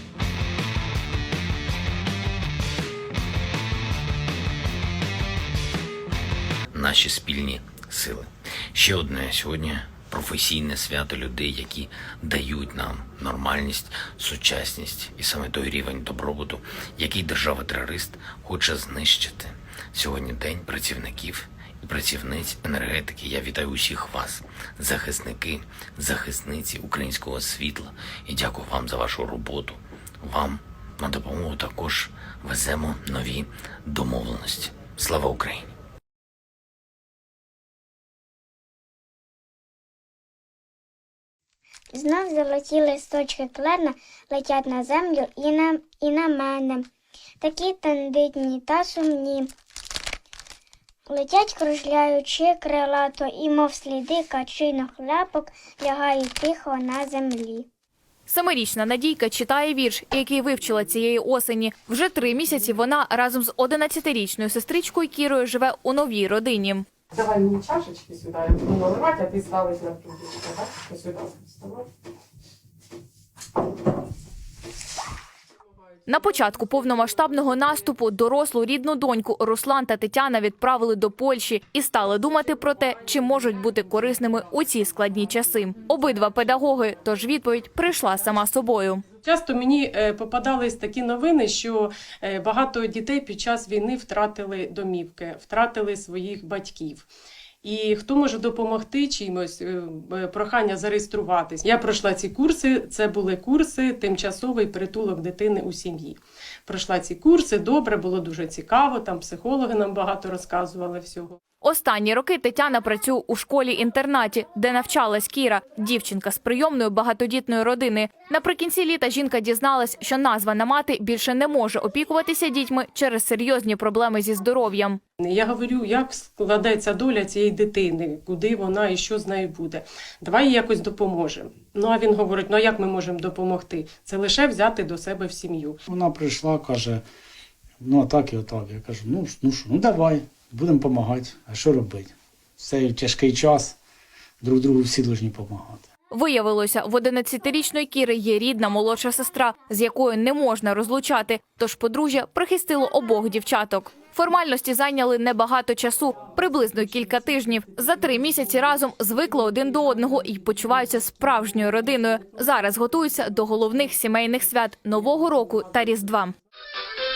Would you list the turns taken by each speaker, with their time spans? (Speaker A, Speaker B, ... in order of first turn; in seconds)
Speaker A: 6.7-35.7
Speaker B: 41.9-46.9, 47.4-49.5, 51.1-57.7
Speaker C: 58.3-66.9, 76.1-89.0, 111.6-125.0, 146.1-166.3
Speaker D: 67.1-71.9, 89.2-97.1, 97.6-111.4, 125.2-135.8
Speaker E: 135.9-137.0, 137.8-143.8, 144.4-145.9